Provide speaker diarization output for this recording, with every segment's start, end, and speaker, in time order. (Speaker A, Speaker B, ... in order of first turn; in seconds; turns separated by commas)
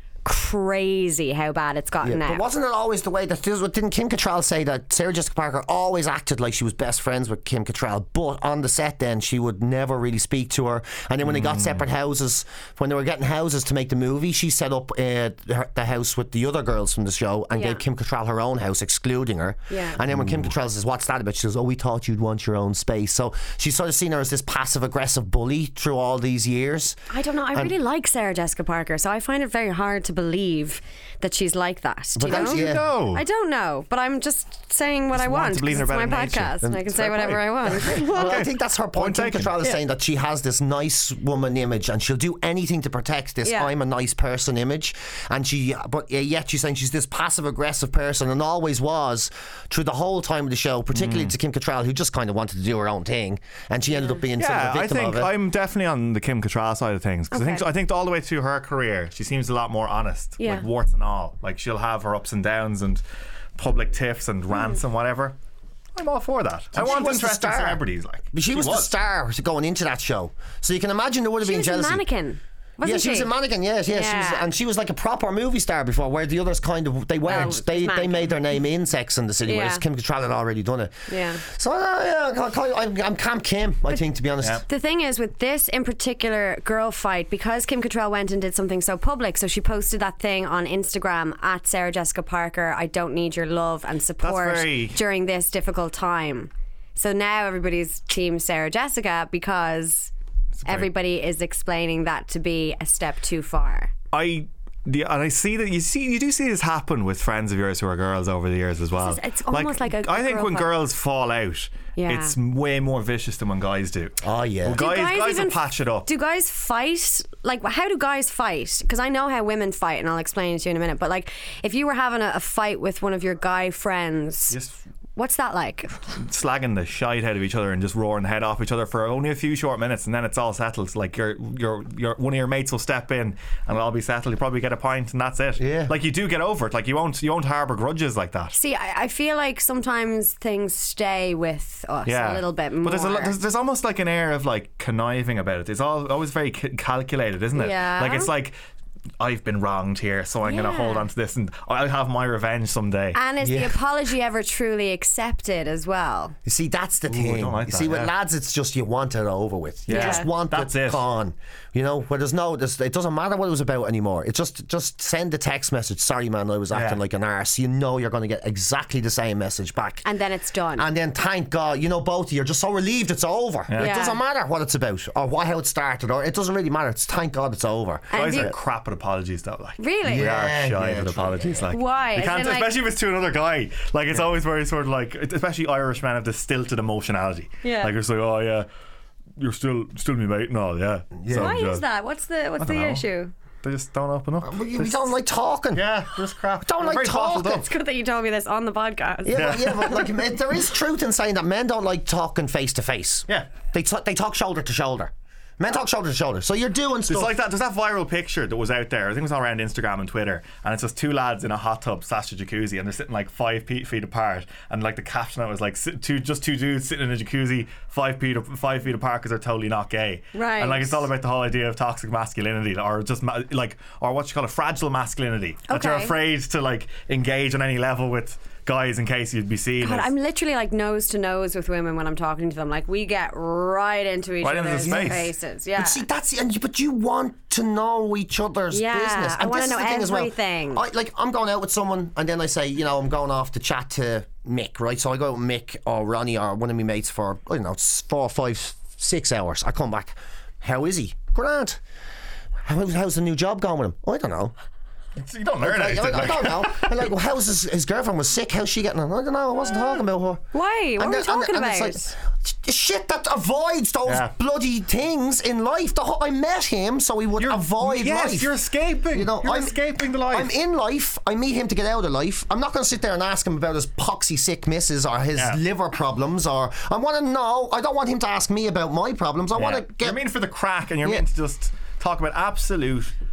Speaker A: 0.2-2.4, Speaker B: 2.0-27.0, Speaker C: 11.2-11.8, Speaker A: 17.5-17.8, Speaker A: 19.7-20.0, Speaker C: 20.1-20.5, Speaker A: 27.1-38.4, Speaker B: 32.1-32.9, Speaker C: 32.3-33.2, Speaker C: 35.1-39.8, Speaker B: 38.0-55.3, Speaker A: 43.4-43.7, Speaker C: 50.9-51.3, Speaker C: 54.4-63.0, Speaker A: 57.3-57.6, Speaker A: 60.4-60.6, Speaker C: 63.5-65.3, Speaker C: 65.9-68.9, Speaker B: 66.7-72.0, Speaker A: 71.4-73.3, Speaker B: 72.8-84.6, Speaker A: 73.9-74.5, Speaker A: 77.2-78.4, Speaker A: 79.5-79.8, Speaker A: 81.1-81.4, Speaker A: 84.7-100.1, Speaker C: 94.2-95.0, Speaker C: 100.6-100.9, Speaker A: 100.6-103.9, Speaker C: 104.1-116.1, Speaker A: 109.0-110.7, Speaker A: 112.0-112.3, Speaker B: 114.2-114.8, Speaker A: 114.8-124.6, Speaker C: 124.5-124.8, Speaker A: 125.2-126.2, Speaker C: 126.2-138.5, Speaker B: 135.6-135.9, Speaker A: 138.5-143.3, Speaker C: 142.1-148.5, Speaker A: 147.5-148.3, Speaker C: 149.2-153.2, Speaker A: 150.4-151.1, Speaker A: 153.1-156.3, Speaker B: 153.4-153.8, Speaker B: 156.4-170.0, Speaker C: 157.1-158.1, Speaker C: 159.9-161.0, Speaker A: 159.9-160.3, Speaker C: 166.7-167.0, Speaker A: 170.0-170.9, Speaker B: 170.8-178.1, Speaker C: 173.7-173.9, Speaker A: 173.8-174.2, Speaker A: 178.1-178.5, Speaker C: 178.1-188.7, Speaker A: 179.8-180.3, Speaker B: 180.0-181.6, Speaker A: 181.7-182.8, Speaker A: 187.6-187.9, Speaker C: 189.4-191.8, Speaker B: 191.2-191.5, Speaker A: 191.3-193.3, Speaker C: 192.6-193.0, Speaker C: 193.6-195.1, Speaker B: 194.4-196.0, Speaker C: 195.7-197.7, Speaker B: 196.6-197.7, Speaker A: 197.1-199.8, Speaker B: 199.2-207.3, Speaker C: 199.3-199.9, Speaker C: 207.1-230.1, Speaker A: 220.3-221.1, Speaker A: 225.7-226.1, Speaker A: 229.8-236.0, Speaker C: 234.4-235.3, Speaker B: 234.8-251.8, Speaker A: 238.7-240.8, Speaker B: 252.7-254.5, Speaker C: 255.2-257.0, Speaker B: 255.6-260.4, Speaker A: 260.5-262.1, Speaker B: 261.0-268.5, Speaker C: 264.1-264.3, Speaker C: 267.4-270.5, Speaker B: 269.1-269.8, Speaker B: 270.3-280.2, Speaker C: 279.5-283.1